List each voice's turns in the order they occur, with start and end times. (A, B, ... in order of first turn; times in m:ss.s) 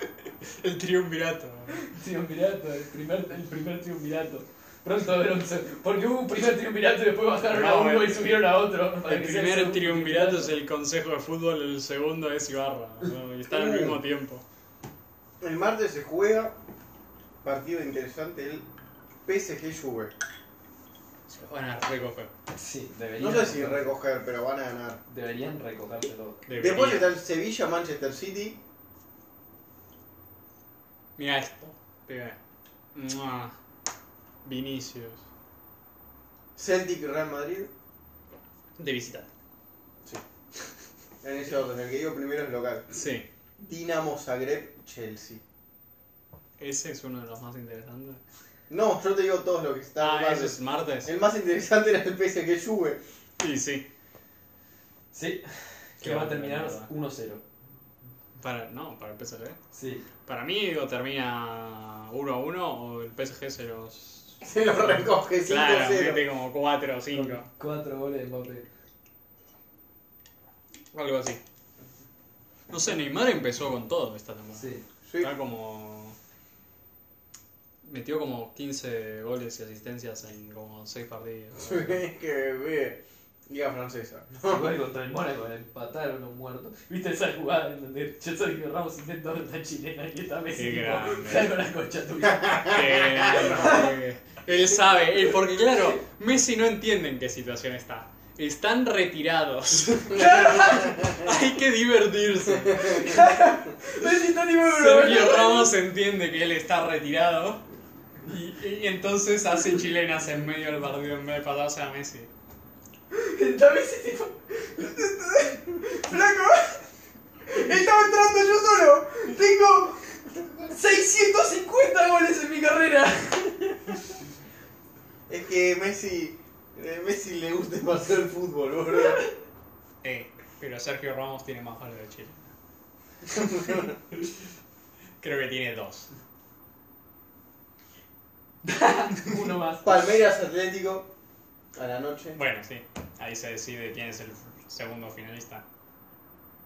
0:00.2-0:01.9 A
0:01.8-0:10.5 B
0:07.5-0:08.4 A
0:09.0-0:14.4 A
0:13.5-0:14.0 C
0:15.4-0:16.5 C
0:17.4-0:18.6 C
0:19.2-0:20.1 C
0:21.3-0:22.3 A
0:22.5-0:23.9 B
0:23.2-0:25.0 C
0:25.1-0:26.4 B
0:26.4-0:27.1 A
0:26.6-0:28.6 C
0:31.2-0:32.4 A
0:32.9-0:33.5 A
0:34.4-0:35.2 A
0:36.6-0:37.7 C
0:38.8-0:39.3 A
0:41.2-0:42.9 C
0:42.9-0:43.2 A
0:43.6-0:45.4 C
0:46.6-0:48.2 A
0:48.7-0:53.0 C
0:50.0-0:51.1 A
0:53.4-0:53.9 A
0:55.1-0:57.4 B
0:56.0-0:56.9 A
0:58.4-0:59.6 A
0:59.7-1:00.0 B
1:00.2-1:04.4 A
1:04.4-1:06.2 C
1:05.4-1:07.4 A
1:07.1-1:08.6 B
1:10.9-1:11.4 A
1:12.7-1:16.2 A
1:14.6-1:14.8 B
1:15.1-1:15.3 C
1:17.8-1:22.0 A
1:21.6-1:24.7 C
1:24.4-1:32.8 B
1:30.6-1:31.6 A
1:32.5-1:33.8 C
1:32.5-1:43.2 A
1:33.4-1:33.9 B
1:40.1-1:41.0 B
1:40.3-1:41.3 C
1:42.8-1:45.7 B
1:44.6-1:47.6 A
1:48.2-1:52.3 A
1:53.1-1:56.8 B
1:57.5-2:03.9 B
2:05.3-2:09.2 C
2:10.0-2:12.5 A
2:13.3-2:13.9 C
2:15.2-2:16.1 A
2:18.6-2:20.0 B
2:19.8-2:21.1 C
2:21.7-2:22.4 C
2:22.3-2:25.6 A